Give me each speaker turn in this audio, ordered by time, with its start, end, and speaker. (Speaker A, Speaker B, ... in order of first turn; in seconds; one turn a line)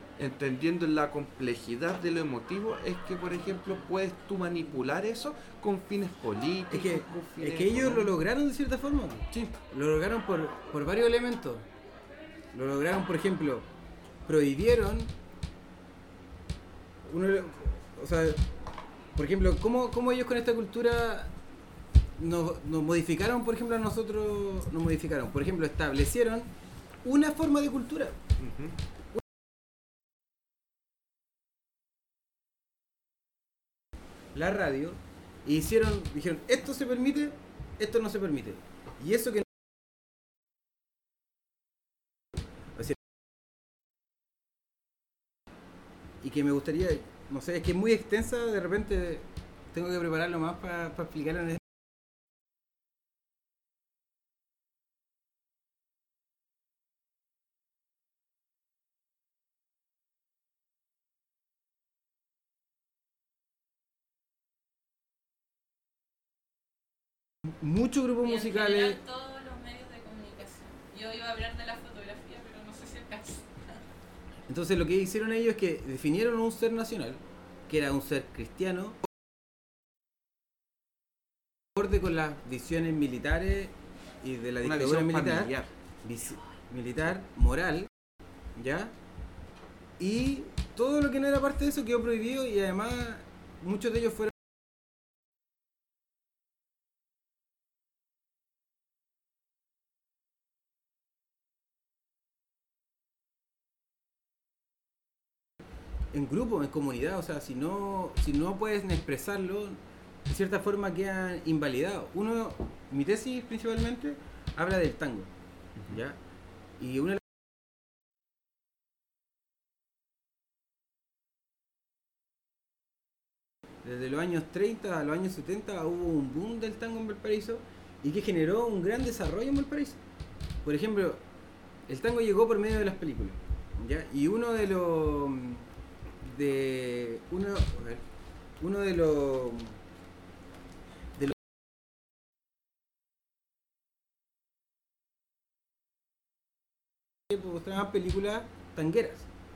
Speaker A: 0.2-8.2
Speaker B: 6.7-11.7
Speaker B: 12.5-13.7
Speaker B: 14.3-15.1
Speaker B: 17.1-18.4
Speaker B: 19.2-21.3
Speaker B: 22.2-26.5
Speaker B: 27.0-28.2
Speaker A: 28.4-28.7
Speaker B: 34.3-39.6
Speaker B: 42.8-43.0
Speaker B: 46.2-51.7
Speaker B: 67.5-69.0
Speaker C: 68.2-73.6
Speaker B: 74.5-79.0
Speaker B: 81.7-85.5
Speaker A: 84.6-85.7
Speaker B: 86.0-87.9
Speaker B: 88.6-88.9
Speaker B: 90.0-94.4
Speaker B: 106.1-115.3
Speaker B: 115.9-116.2
Speaker B: 116.8-117.4
Speaker B: 123.8-130.0
Speaker B: 130.6-131.2
Speaker B: 131.9-135.7
Speaker B: 136.2-138.0
Speaker B: 138.6-139.8
Speaker B: 147.3-149.3